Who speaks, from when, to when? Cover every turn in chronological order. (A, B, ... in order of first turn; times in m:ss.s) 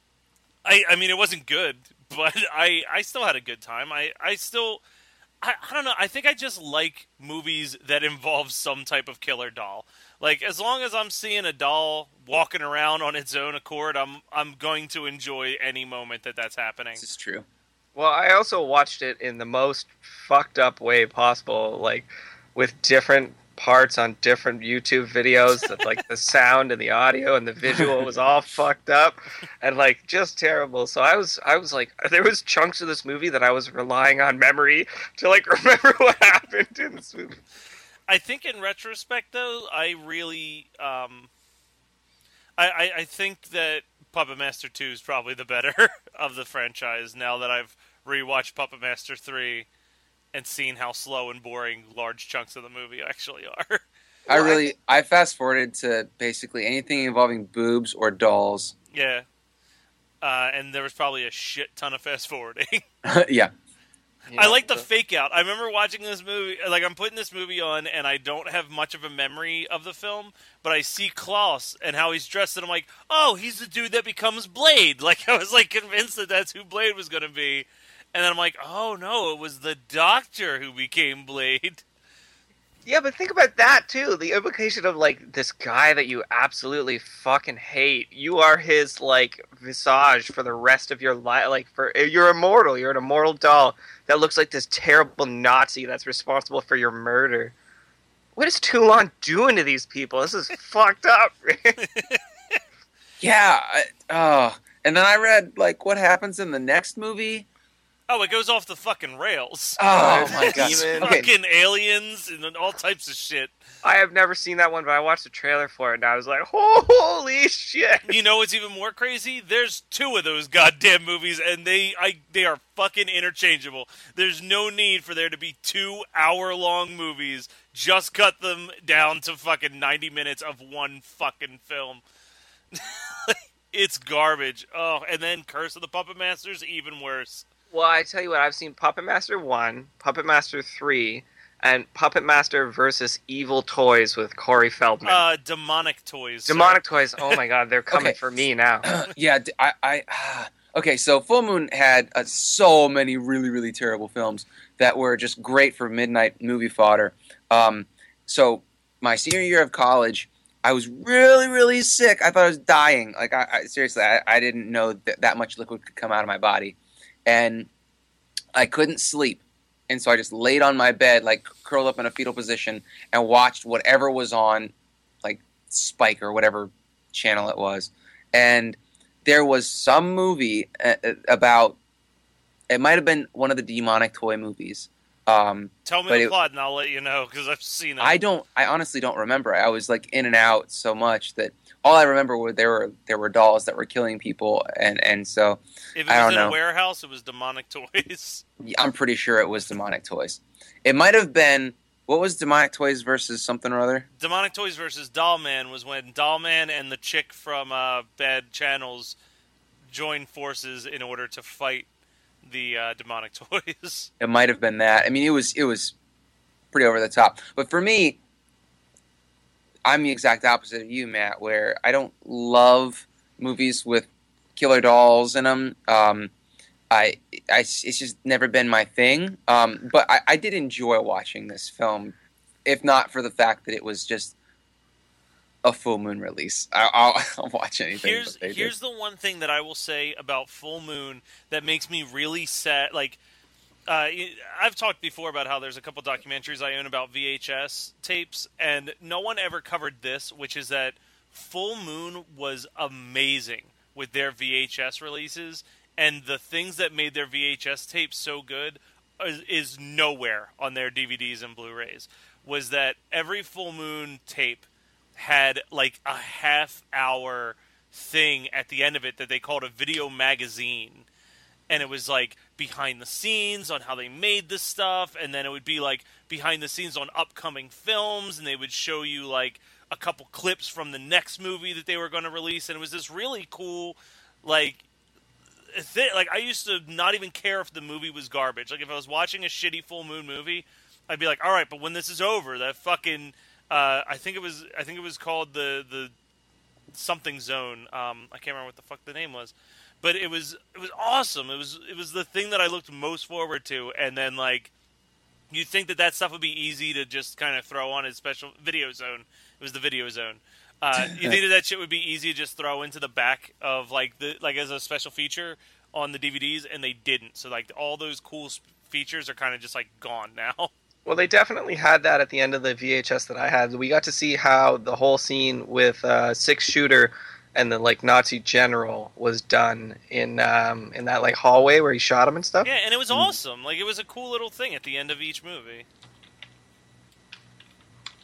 0:00.6-0:04.8 A
0:05.4-0:17.0 A
0:17.0-0:17.4 B
0:18.0-0:37.4 C
0:38.1-0:41.3 A
0:42.6-0:49.7 A
0:50.3-0:53.8 A
0:54.3-0:58.7 B
0:58.9-0:59.3 A
1:00.2-1:02.8 A
1:03.0-1:03.5 B
1:04.3-1:04.9 C
1:04.4-1:21.8 A
1:22.9-1:37.5 C
1:38.4-1:41.8 C
1:42.0-1:42.6 A
1:43.2-1:47.5 B
1:48.1-1:53.6 A
1:49.8-1:51.3 B
1:50.0-1:51.2 C
1:53.8-1:58.2 C
1:58.1-2:12.0 A
2:12.7-2:17.5 A
2:17.7-2:25.2 C
2:25.0-2:27.4 A
2:26.5-2:28.9 C
2:27.9-2:28.2 B
2:28.8-2:47.7 B
2:48.6-3:01.8 B
3:02.7-3:06.3 B
3:05.9-3:08.2 A
3:08.0-3:16.6 B
3:16.0-3:18.4 A
3:18.6-3:24.0 B
3:24.2-3:29.2 A
3:29.9-3:31.9 A
3:32.4-3:34.1 A
3:34.2-3:36.0 B
3:36.7-3:38.2 B
3:39.8-3:46.3 B
3:46.9-3:54.3 B
3:55.6-3:58.7 B
3:58.0-4:03.2 A
4:03.9-4:31.1 A
4:31.7-4:44.8 A
4:45.7-4:56.1 A
4:56.9-5:04.7 A
5:05.5-5:20.7 A
5:21.1-5:32.7 C
5:32.6-5:35.9 A